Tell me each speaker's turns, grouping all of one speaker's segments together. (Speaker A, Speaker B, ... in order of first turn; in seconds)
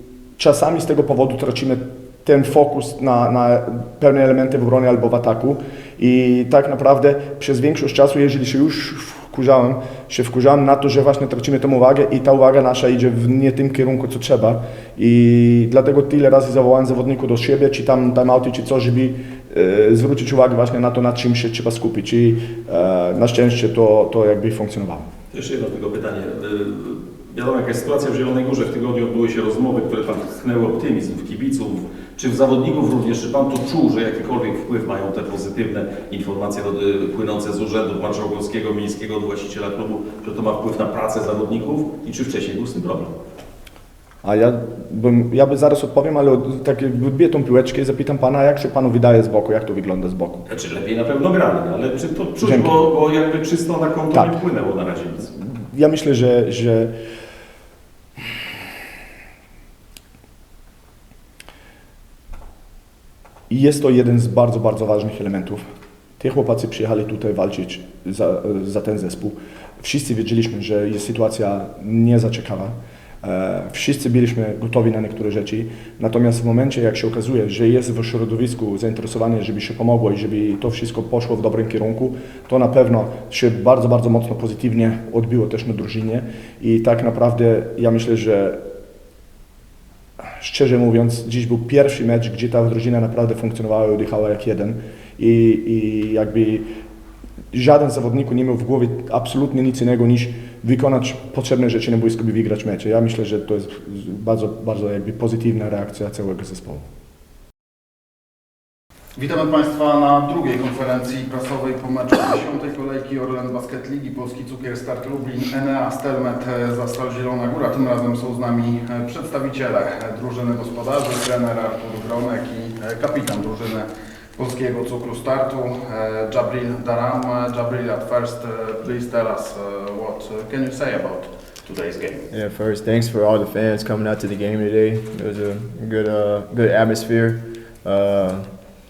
Speaker A: 0.4-25.1, 44.2-50.4, 52.4-52.7, 55.4-56.9, 63.5-65.6, 66.2-88.6, 90.4-96.7, 97.5-106.8
Speaker B: 25.3-43.1, 50.5-55.3
Speaker C: 109.2-132.3
Speaker D: 132.3-138.7